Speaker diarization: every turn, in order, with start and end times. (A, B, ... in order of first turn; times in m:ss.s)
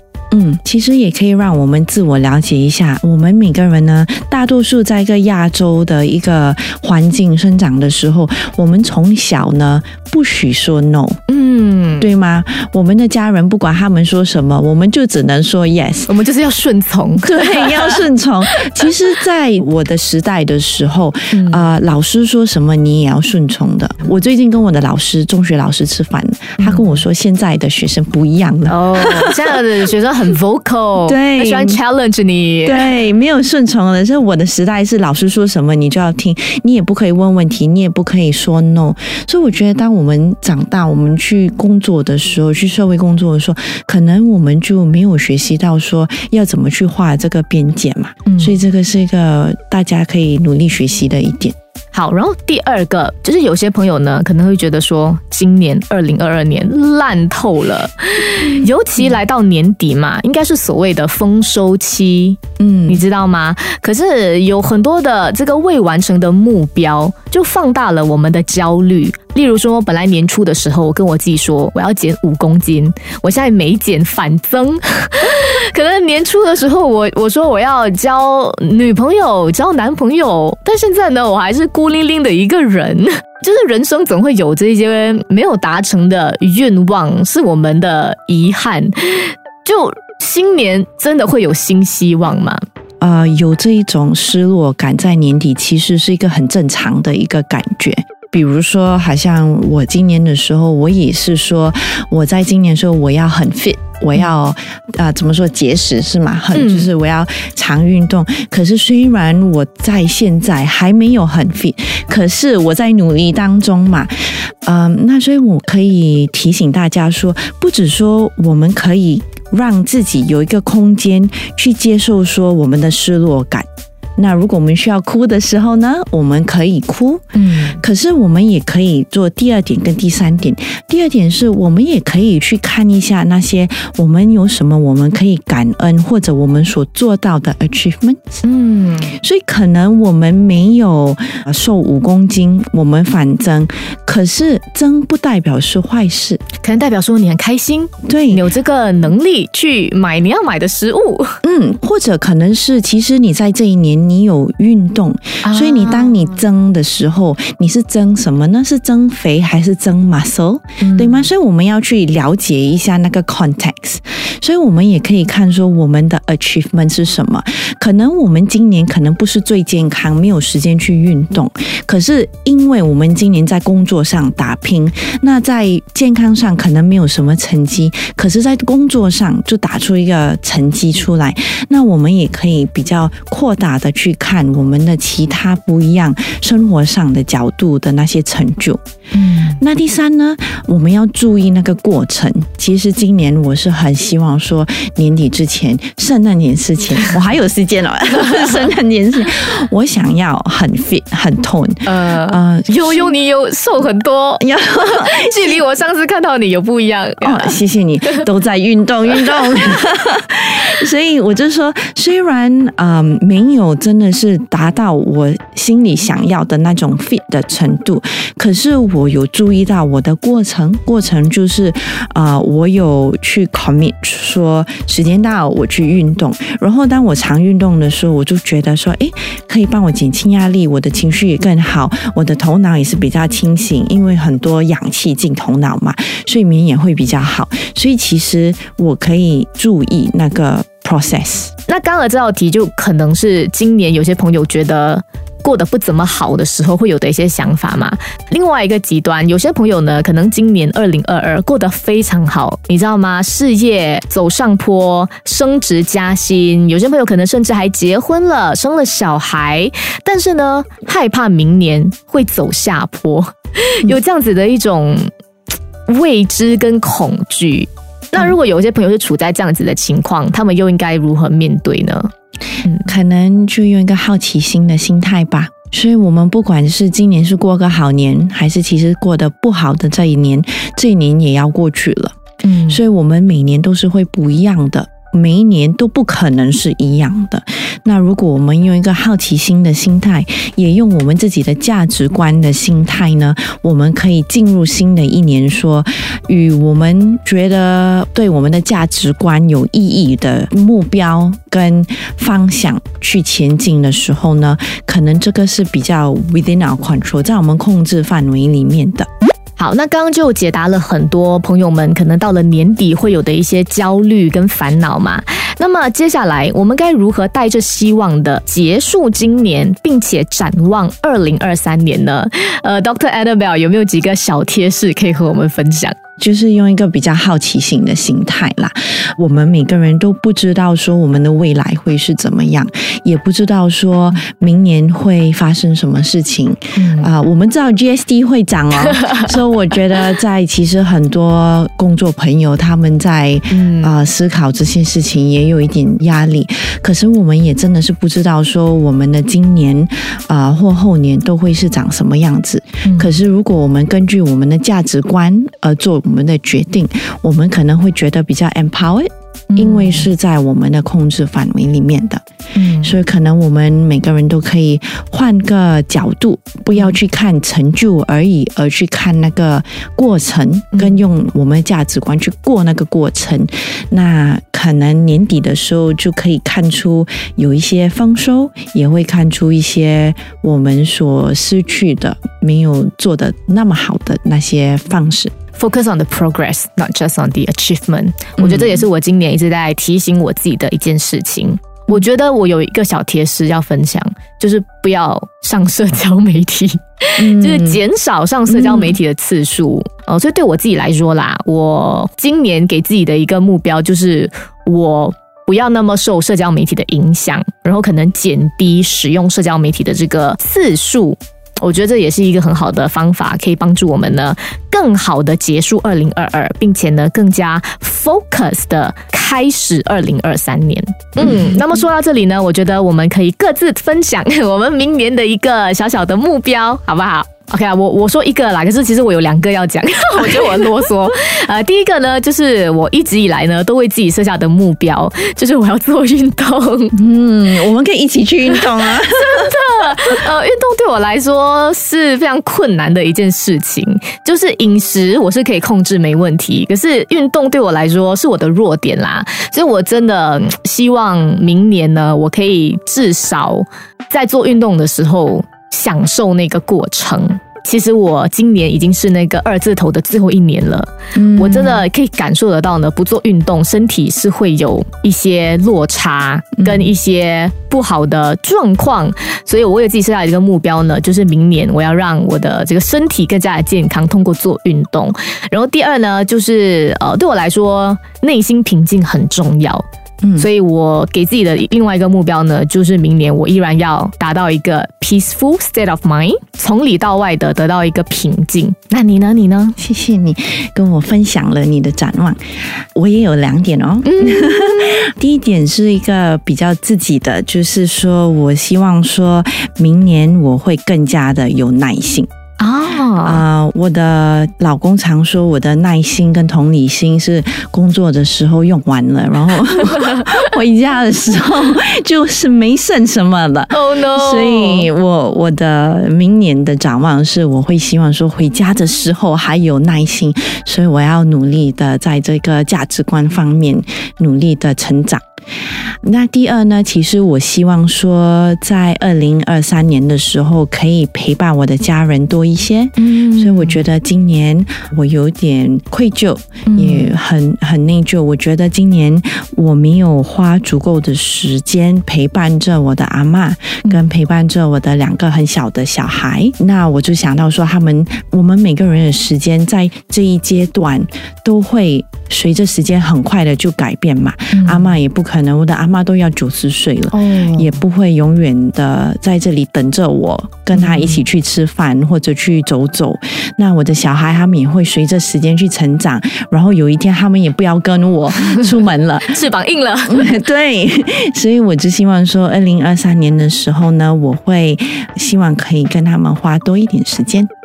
0:00.3-0:11.2 A
0:11.3-0:12.1 B
0:12.0-0:16.1 A
0:16.1-0:18.9 B
0:17.2-0:29.6 A
0:21.3-0:21.7 B
0:26.6-0:26.9 B
0:28.7-0:32.9 B
0:31.0-0:31.8 A
0:32.6-0:51.6 A
0:48.3-0:48.6 B
0:51.9-1:32.6 B
0:58.4-0:58.7 A
1:02.6-1:03.0 A
1:33.0-2:03.6 A
1:46.5-1:46.9 B
2:04.2-2:18.2 A
2:07.3-2:07.8 B
2:18.4-2:19.2 B
2:19.2-2:26.4 A
2:26.6-2:31.4 B
2:28.0-2:28.4 A
2:31.4-3:08.8 A
2:35.4-2:36.4 B
2:40.8-2:41.3 B
3:09.1-3:09.6 B
3:09.4-3:23.1 A
3:21.8-3:28.3 B
3:24.4-3:25.6 A
3:27.2-4:01.5 A
4:01.7-4:25.1 B
4:25.9-4:32.1 B
4:32.6-4:32.9 B
4:32.8-4:42.2 A
4:42.4-4:42.8 B
4:42.7-5:09.1 A
5:09.6-5:26.0 B
5:26.2-6:02.2 A
5:36.8-5:37.1 B
5:38.9-5:39.3 B
5:43.5-5:43.9 B
5:52.8-5:53.2 B
5:59.5-6:00.1 B
6:02.5-6:03.0 B
6:02.8-6:25.3 A
6:10.7-6:11.0 B
6:25.6-7:16.9 B
6:28.4-6:28.8 A
6:37.2-6:37.8 A
6:38.4-6:38.9 A
7:16.9-7:19.5 A
7:18.4-7:59.8 B
7:41.1-7:41.9 A
7:46.6-7:46.9 A
8:00.2-8:00.5 A
8:00.4-8:09.8 B
8:09.8-8:22.3 A
8:14.0-8:15.1 B
8:22.6-8:23.4 B
8:23.2-8:45.2 A
8:30.0-8:30.4 B
8:33.7-8:34.9 B
8:46.0-9:29.4 A
8:53.0-8:53.8 B
8:56.6-8:57.1 B
9:14.5-9:14.9 B
9:17.1-9:17.7 B
9:20.7-9:21.2 B
9:28.5-9:28.8 B
9:29.3-9:30.4 B
9:30.0-9:37.5 A